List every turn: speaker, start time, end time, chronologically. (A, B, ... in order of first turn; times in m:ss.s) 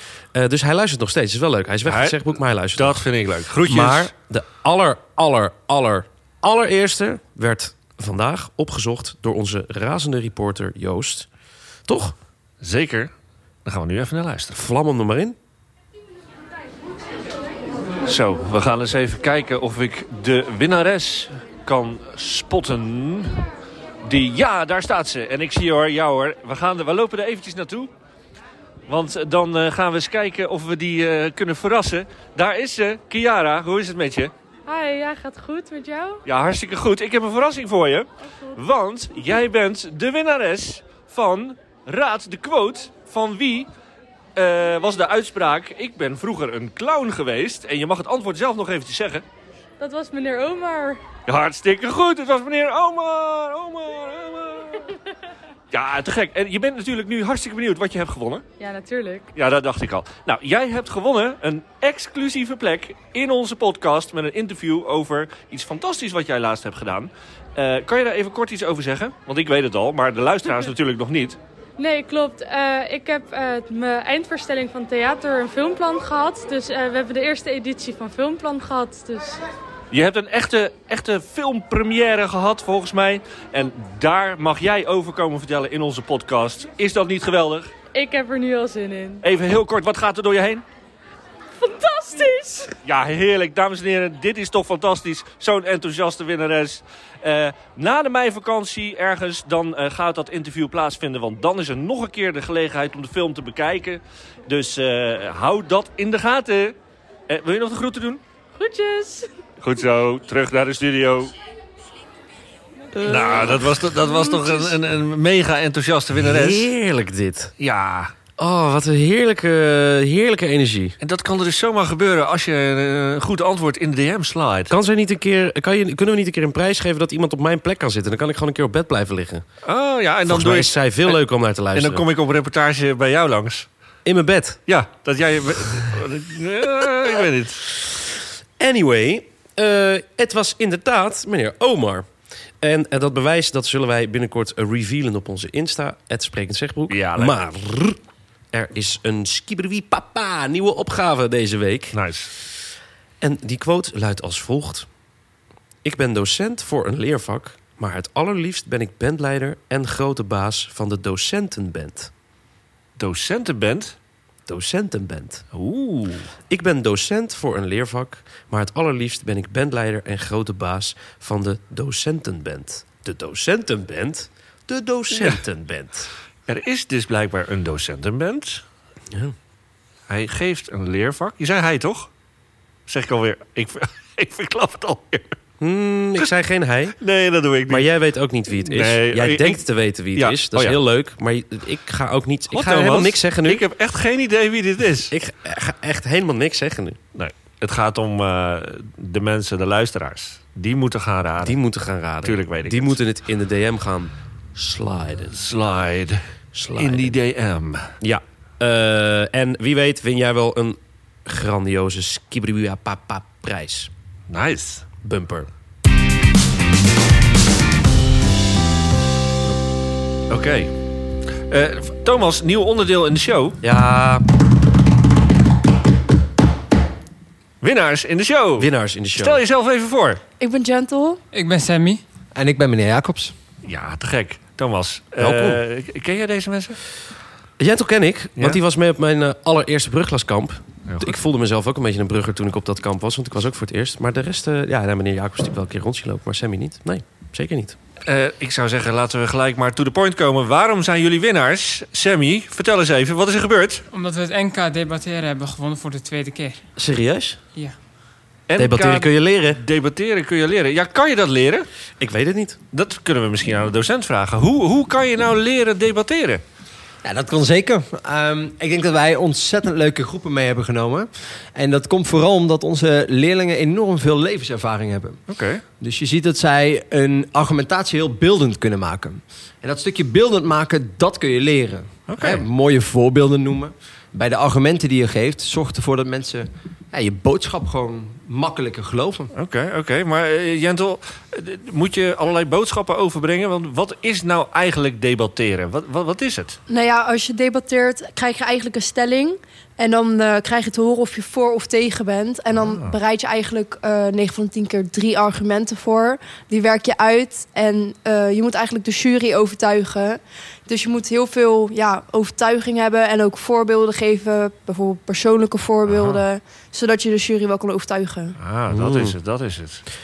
0:00.3-0:11.3 A
0:01.8-0:02.2 B
0:02.7-0:04.1 B
0:11.9-0:12.2 A
0:12.6-0:13.1 B
0:13.6-0:14.6 B
0:14.5-0:15.4 A
0:18.0-0:23.4 B
0:24.0-0:27.9 B
0:28.9-0:34.3 B
0:34.6-0:36.2 C
0:36.2-0:43.7 B
0:38.3-0:38.6 C
0:44.4-0:49.2 B
0:49.8-0:51.0 C
0:51.2-0:54.8 B
0:55.7-0:58.4 B
0:58.6-0:59.3 C
0:59.3-1:11.4 B
1:11.8-1:19.4 C
1:19.9-1:27.7 B
1:27.9-1:29.2 C
1:29.2-1:30.6 B
1:31.6-1:32.7 C
1:32.8-1:46.8 B
1:47.3-1:48.2 B
1:48.6-1:49.3 C
1:49.6-1:51.3 B
1:52.9-1:53.8 A
1:53.0-1:56.7 B
1:56.2-1:57.5 A
1:57.6-1:58.1 B
1:58.4-2:01.0 A
2:01.0-2:04.7 B
2:04.7-2:09.4 A
2:09.6-2:11.2 B
2:10.2-2:12.0 A
2:11.7-2:13.7 B
2:14.0-2:14.6 A
2:14.7-2:17.7 B
2:18.6-2:28.0 A
2:26.9-2:27.3 B
2:28.5-2:32.5 A
2:31.9-2:32.3 B
2:33.2-2:34.9 A
2:35.8-2:42.1 A
2:43.0-2:44.0 B
2:44.4-2:45.4 A
2:45.5-2:46.3 B
2:46.5-2:56.1 A
2:55.1-2:55.4 B
2:56.5-2:58.6 B
3:00.1-3:02.1 B
3:02.9-3:05.4 B
3:05.6-3:07.0 A
3:07.0-3:07.9 B
3:07.7-3:13.6 A
3:08.5-3:10.8 B
3:12.5-3:15.1 B
3:15.1-3:17.0 A
3:17.1-3:21.6 B
3:21.4-3:25.3 A
3:22.2-3:23.0 B
3:25.3-3:26.2 B
3:26.5-3:27.2 A
3:26.8-3:27.9 B
3:28.0-3:33.9 A
3:34.3-3:34.8 B
3:35.0-3:35.5 A
3:40.3-3:40.7 B
3:41.5-3:43.6 B
3:43.6-3:44.2 A
3:47.6-3:50.2 B
3:48.6-3:49.4 A
3:50.4-3:51.2 D
3:51.3-3:52.0 E
3:52.3-3:53.3 F
3:53.6-3:56.8 B
3:55.2-3:55.6 A
3:57.6-4:07.8 A
4:00.9-4:01.2 B
4:08.0-4:13.8 B
4:13.9-4:16.6 E
4:16.8-4:17.4 A
4:18.5-4:21.7 B
4:18.6-4:19.6 A
4:22.0-4:22.6 A
4:22.7-4:26.4 B
4:27.0-4:35.2 F
4:35.3-4:35.6 B
4:35.8-4:49.3 F
4:42.1-4:42.4 B
4:49.3-4:56.6 B
4:56.7-5:18.4 D
5:02.5-5:03.0 B
5:15.8-5:16.2 B
5:18.4-5:19.8 B
5:18.7-5:19.2 A